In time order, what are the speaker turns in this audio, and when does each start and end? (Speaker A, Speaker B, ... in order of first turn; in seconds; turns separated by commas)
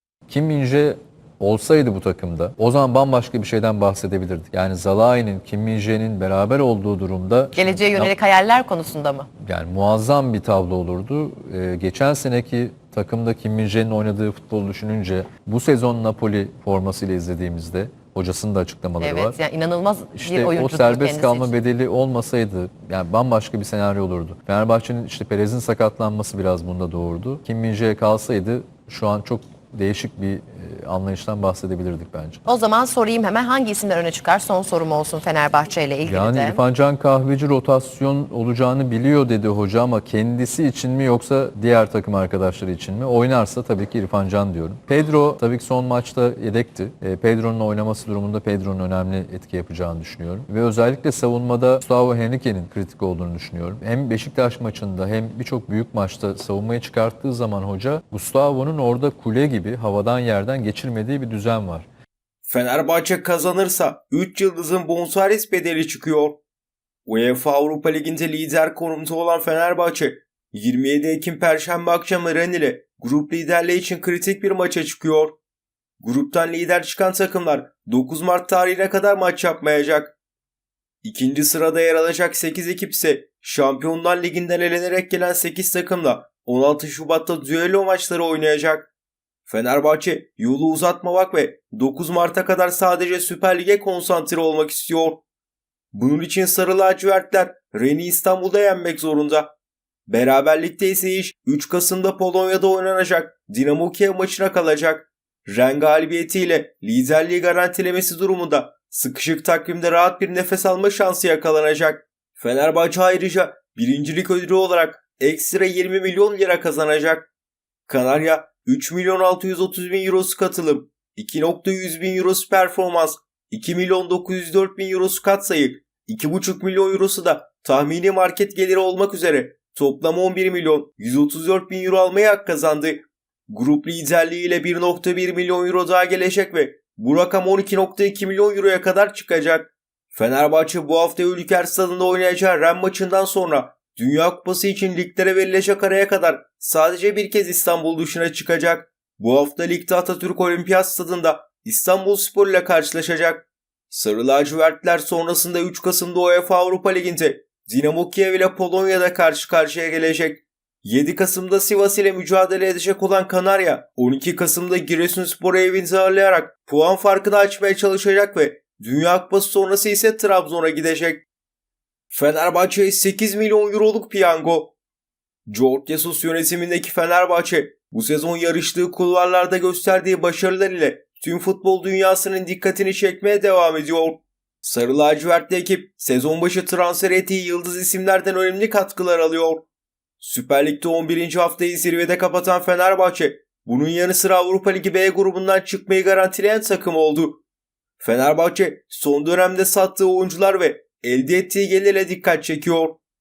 Speaker A: 0.3-8.1, Speaker B: 7.5-9.3, Speaker A: 9.4-19.4, Speaker B: 19.0-21.5, Speaker A: 20.1-32.4, Speaker B: 32.4-36.6, Speaker A: 36.0-61.9, Speaker C: 62.4-66.4, Speaker C: 67.0-75.3, Speaker C: 76.0-80.1, Speaker C: 81.0-88.9, Speaker C: 89.5-95.2, Speaker C: 95.9-99.5, Speaker C: 100.1-117.3, Speaker C: 117.9-171.2, Speaker C: 172.1-174.7, Speaker C: 175.5-189.6, Speaker C: 190.2-197.4, Speaker C: 198.0-203.0